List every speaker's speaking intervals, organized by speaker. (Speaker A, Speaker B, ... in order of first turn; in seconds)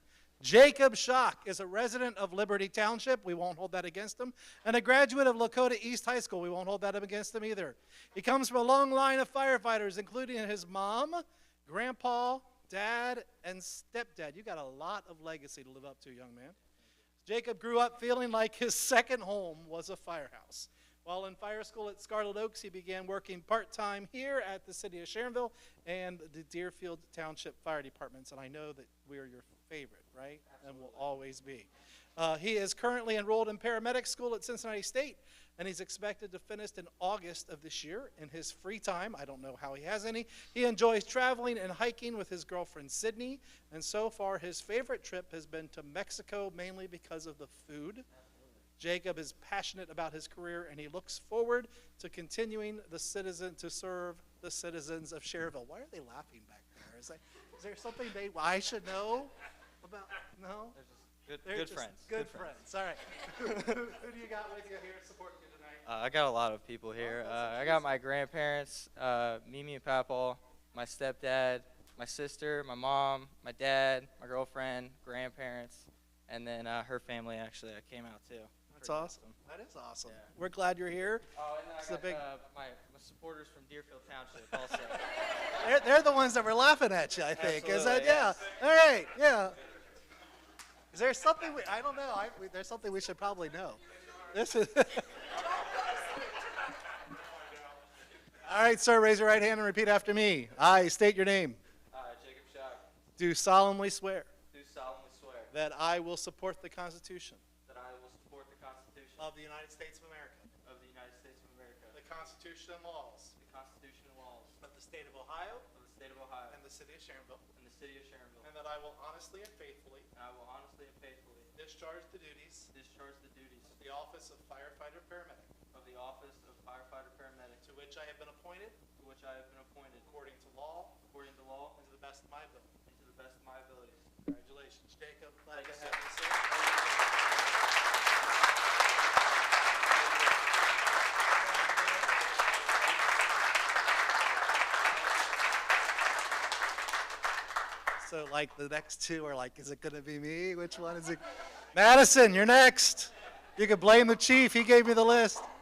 Speaker A: 0.4-16.6, 17.2-48.0, 48.8-60.8, 61.4-65.9, 67.0-68.0, 78.7-81.2, 81.8-82.2, 85.5-89.6, 90.9-95.2, 98.4-101.6, 103.2-104.3, 105.5-107.4, 109.2-110.5, 111.9-113.3, 114.6-115.7, 116.5-117.4, 118.4-120.1, 121.5-122.7, 123.7-125.5, 127.6-128.8, 130.0-131.0, 131.8-132.8, 134.3-136.8, 141.3-142.1, 148.0-151.2, 151.7-155.5
Speaker B: 30.4-31.4, 48.1-48.6, 60.7-62.6, 65.8-79.4, 80.0-80.3, 81.3-85.2, 87.3-88.5, 101.9-102.8, 104.5-105.5, 107.6-109.3, 110.6-112.0, 113.4-114.5, 115.7-116.6, 117.5-118.5, 120.1-121.5, 122.7-123.9, 125.7-127.7, 129.0-130.1, 131.0-131.8, 132.8-134.3, 135.5-136.1